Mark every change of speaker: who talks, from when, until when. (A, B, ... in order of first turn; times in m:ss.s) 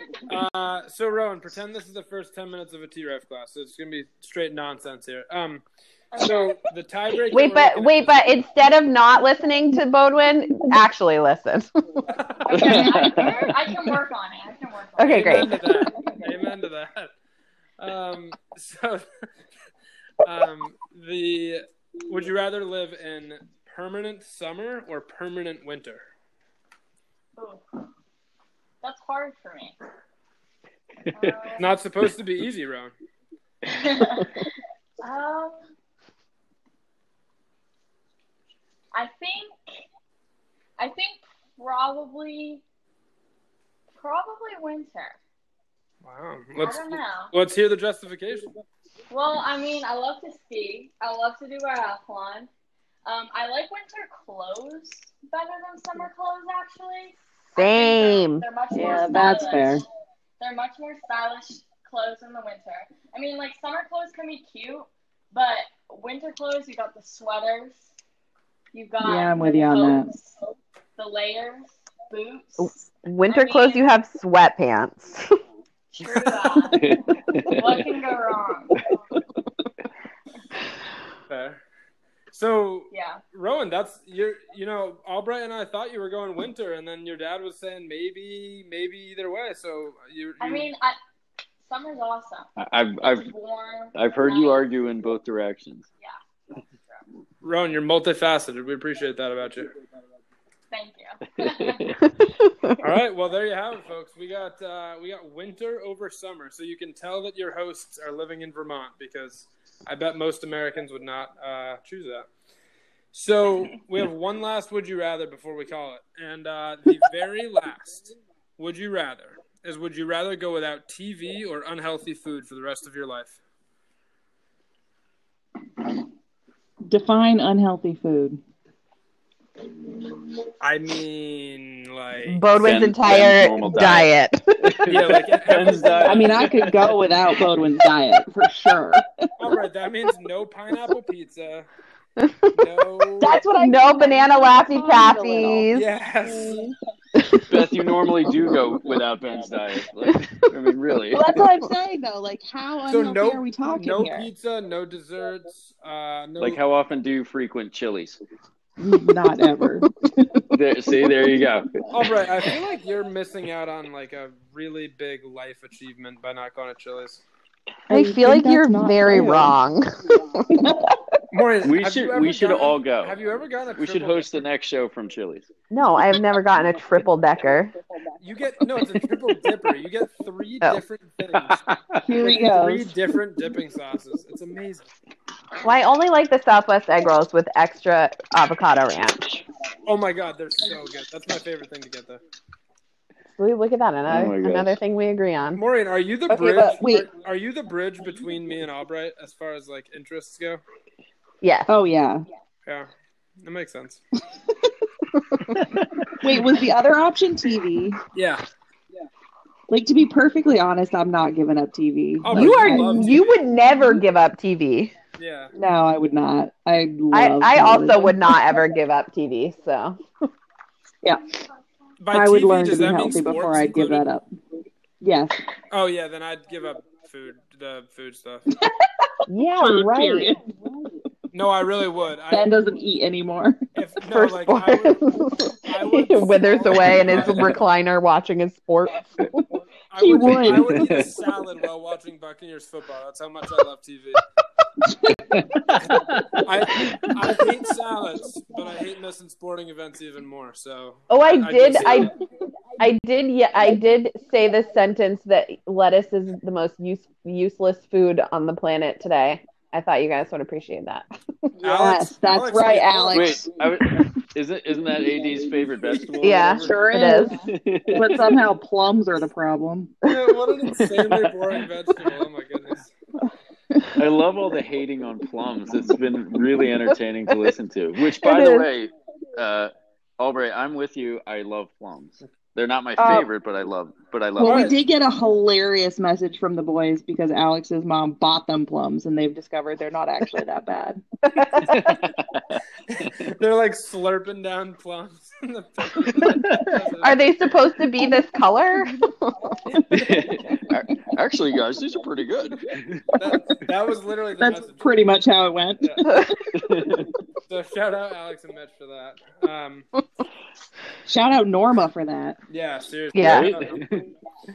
0:00.2-0:05.6 A
0:06.1-0:06.6 B
0:06.2-0:08.1 A
0:07.3-0:11.7 C
0:12.1-0:12.8 A
0:12.5-0:15.7 B
0:12.5-0:13.9 D
0:15.0-0:15.6 C
0:15.1-0:17.1 A
0:17.8-0:19.0 A
0:20.2-0:26.0 A
0:27.4-0:27.6 B
0:28.8-0:29.8 B
0:31.1-0:31.4 D
0:31.1-0:31.7 B
0:31.6-0:32.9 A
0:33.7-0:34.5 B
0:35.0-0:35.6 B
0:38.9-0:39.6 B
0:40.8-0:42.6 B
0:44.0-0:45.2 B
0:46.0-0:48.5 A
0:46.6-0:47.3 B
0:49.1-0:52.5 B
0:53.1-0:59.8 B
0:57.6-0:58.4 C
0:58.7-0:59.8 E
1:00.4-1:07.9 B
1:08.7-1:10.4 B
1:09.0-1:10.1 E
1:11.0-1:13.9 B
1:12.6-1:15.3 C
1:15.9-1:18.9 B
1:16.7-1:17.9 D
1:21.3-1:21.6 A
1:22.3-1:30.7 A
1:22.9-1:23.2 B
1:30.4-1:31.0 B
1:31.6-1:32.5 B
1:32.6-1:33.3 D
1:33.0-1:34.7 B
1:34.0-1:35.9 D
1:37.4-1:39.7 A
1:40.7-1:41.9 B
1:41.4-1:42.0 D
1:42.3-1:42.8 C
1:42.8-1:52.3 A
1:53.1-2:03.4 A
2:06.9-2:08.4 E
2:10.6-2:12.4 A
2:12.3-2:14.8 C
2:12.6-2:17.0 D
2:14.9-2:16.5 A
2:16.0-2:19.0 E
2:19.4-2:21.7 A
2:22.2-2:22.5 C
2:22.5-2:23.4 A
2:23.2-2:25.7 E
2:23.4-2:25.9 C
2:25.7-2:26.7 A
2:27.2-2:27.5 C
2:27.5-2:31.5 D
2:31.1-2:34.3 E
2:32.9-2:36.6 A
2:36.4-2:38.2 D
2:38.8-2:40.4 E
2:40.5-2:41.8 D
2:41.9-2:47.2 A
2:47.9-2:49.6 E
2:47.9-2:50.7 C
2:50.5-2:51.0 E
2:51.3-2:54.4 A
2:51.6-2:53.2 D
2:53.8-2:55.5 D
2:55.7-2:57.7 C
2:58.2-3:01.6 A
3:01.4-3:02.0 D
3:02.0-3:02.9 E
3:02.2-3:04.9 A
3:05.6-3:09.4 C
3:09.9-3:12.2 A
3:13.4-3:15.6 C
3:14.1-3:14.8 D
3:15.6-3:20.6 A
3:16.4-3:17.0 C
3:16.5-3:16.9 E
3:21.4-3:21.7 C
3:21.7-3:22.2 E
3:23.4-3:24.0 A
3:25.2-3:25.6 C
3:25.6-3:26.1 D
3:26.2-3:28.0 E
3:28.1-3:28.4 A
3:29.7-3:33.1 E
3:32.2-3:33.4 A
3:32.3-3:34.9 C
3:35.2-3:35.5 A
3:35.6-3:38.3 E
3:37.1-3:40.0 C
3:41.0-3:41.3 E
3:42.0-3:44.1 A
3:42.1-3:44.3 E
3:45.0-3:45.4 E
3:45.7-3:48.5 A
3:49.3-3:50.3 C
3:49.6-3:50.4 E
3:51.3-3:52.5 A
3:52.3-3:53.6 E
3:53.8-3:55.1 A
3:54.1-3:59.4 C
3:55.6-3:57.6 A
3:59.9-4:04.2 A
4:00.0-4:00.9 E
4:00.5-4:01.1 D
4:04.8-4:05.2 E
4:05.3-4:07.2 D
4:05.9-4:12.1 A
4:11.1-4:12.1 C
4:12.8-4:21.1 C
4:21.6-4:23.5 A
4:21.6-4:23.5 E
4:23.1-4:28.4 D
4:26.2-4:26.8 A
4:26.2-4:27.4 C
4:26.6-4:27.4 E
4:27.9-4:30.0 E
4:30.0-4:32.9 A
4:30.8-4:31.3 D
4:34.0-4:44.8 D
4:38.2-4:38.7 C
4:43.0-4:43.3 E
4:44.4-4:51.0 E
4:44.4-4:44.8 A
4:51.6-4:53.1 D
4:52.9-4:57.2 A
4:56.2-4:56.8 D
4:57.0-4:59.4 C
4:59.7-5:00.3 A
4:59.9-5:03.2 D
5:03.2-5:05.0 A
5:04.4-5:06.2 E
5:05.8-5:06.1 A
5:06.1-5:06.5 C
5:06.5-5:07.1 D
5:07.5-5:09.9 A
5:11.1-5:12.4 E
5:12.5-5:13.8 A
5:13.1-5:13.5 C
5:13.2-5:14.1 D